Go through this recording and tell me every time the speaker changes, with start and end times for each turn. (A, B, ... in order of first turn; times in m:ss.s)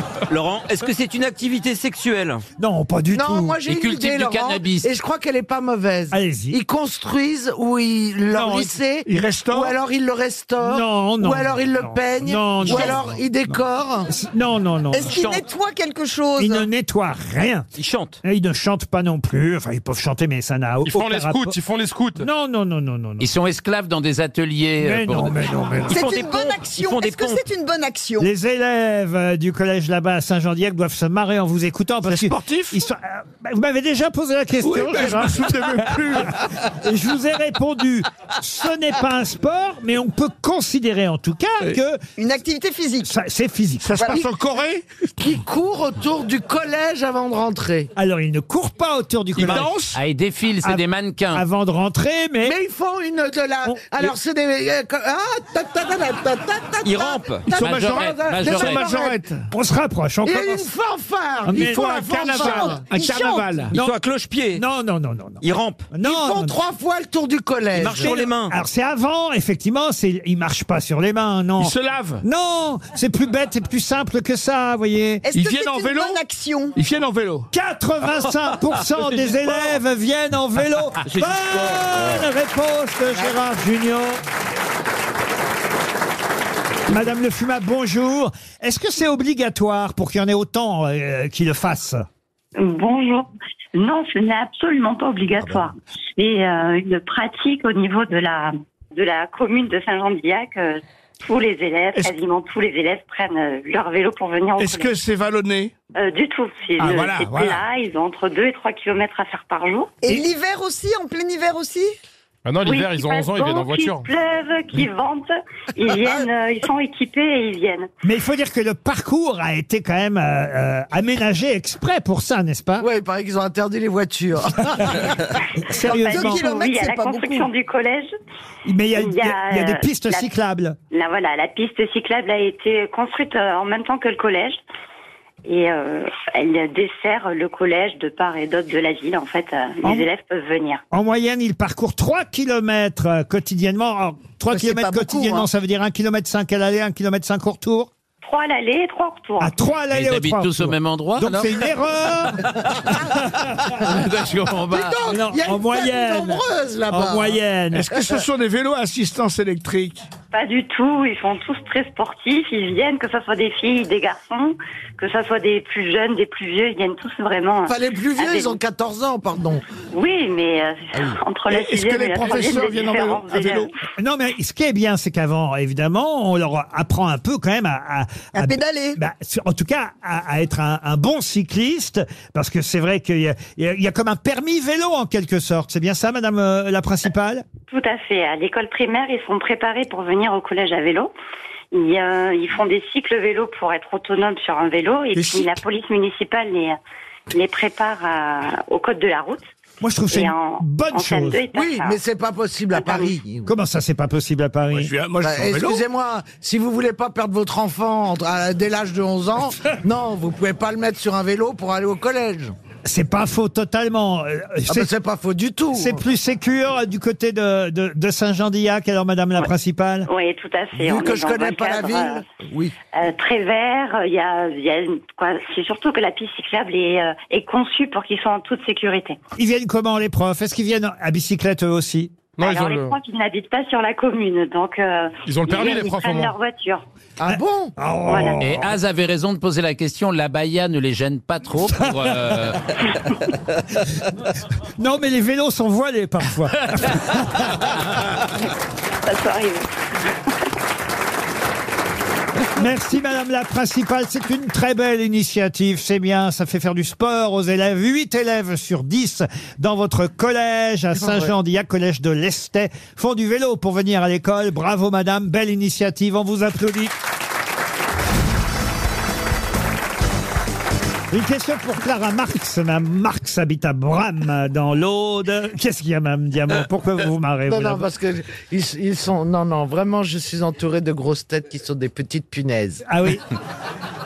0:00.3-0:02.4 A
0:02.6-0:03.6 B
0:03.1-0:14.1 C
0:03.7-0:04.9 D
0:06.1-0:06.6 B
0:08.3-0:08.7 B
0:09.1-0:09.8 E
0:10.6-0:13.2 B
0:14.1-0:15.2 B
0:14.9-0:16.7 F
0:15.1-0:15.4 A
0:16.4-0:17.7 B
0:17.8-0:18.2 A
0:18.2-0:21.5 B
0:20.8-0:22.2 G
0:22.2-0:23.3 B
0:23.2-0:25.4 D
0:24.8-0:26.0 B
0:25.9-0:28.3 F
0:25.9-0:27.4 A
0:28.2-0:42.0 B
0:32.1-0:32.8 E
0:34.6-0:36.7 E
0:42.2-0:43.1 F
0:43.0-0:44.2 B
0:43.8-0:44.8 E
0:44.0-0:44.2 F
0:45.2-0:47.9 C
0:48.0-0:49.7 B
0:49.4-0:50.0 E
0:49.9-0:51.4 D
0:50.6-0:52.6 B
0:52.4-0:59.2 C
0:53.6-0:54.1 B
0:56.8-0:57.5 A
0:57.6-0:59.5 E
0:57.6-0:58.9 D
0:59.5-1:00.7 B
1:00.2-1:03.0 C
1:01.5-1:02.8 B
1:01.5-1:03.8 E
1:03.0-1:03.4 F
1:03.7-1:04.0 B
1:03.7-1:04.6 A
1:04.6-1:06.6 B
1:05.4-1:05.9 A
1:06.0-1:08.2 C
1:07.8-1:08.6 A
1:07.9-1:15.3 B
1:11.6-1:12.2 E
1:15.3-1:16.8 F
1:15.3-1:16.2 E
1:16.8-1:17.5 E
1:17.5-1:24.2 B
1:26.9-1:32.1 B
1:32.6-1:44.9 H
1:44.6-1:45.7 E
1:46.0-1:50.0 H
1:46.8-1:47.6 E
1:50.0-1:51.9 F
1:52.4-1:54.1 G
1:52.6-1:57.9 H
1:58.0-2:02.9 B
2:02.8-2:05.3 C
2:04.8-2:05.1 B
2:05.7-2:06.5 B
2:05.7-2:07.5 F
2:05.8-2:08.1 H
2:08.6-2:10.8 B
2:09.0-2:10.3 H
2:10.9-2:14.6 H
2:15.4-2:20.8 H
2:20.9-2:27.9 B
2:24.5-2:25.5 F
2:28.2-2:29.5 H
2:29.4-2:33.8 B
2:29.9-2:31.7 D
2:33.7-2:35.0 D
2:34.7-2:37.4 C
2:35.1-2:38.0 B
2:37.7-2:40.1 E
2:40.3-2:48.6 H
2:47.7-2:49.6 C
2:49.9-2:53.7 H
2:51.5-2:53.7 E
2:54.0-3:07.5 B
2:58.4-2:59.0 F
3:07.7-3:11.1 H
3:11.7-3:16.8 H
3:15.2-3:15.6 E
3:17.3-3:19.5 H
3:19.8-3:21.4 B
3:20.1-3:22.0 H
3:21.5-3:23.5 C
3:22.7-3:23.1 H
3:23.4-3:24.9 B
3:24.7-3:25.8 E
3:25.2-3:32.5 C
3:32.8-3:34.9 B
3:34.7-3:36.0 C
3:35.7-3:40.1 B
3:40.1-3:42.2 H
3:40.8-3:42.7 C
3:42.9-3:49.2 H
3:49.4-3:52.2 B
3:52.4-3:53.0 G
3:52.4-3:56.8 H
3:55.3-3:56.3 G
3:57.2-3:57.7 C
3:57.3-3:58.7 B
3:58.1-3:58.4 H
3:58.4-4:02.6 D
4:01.8-4:02.1 B
4:04.8-4:07.7 B
4:09.0-4:09.7 H
4:12.6-4:27.0 B
4:31.1-4:37.9 B
4:37.5-4:42.8 C
4:42.9-4:43.2 B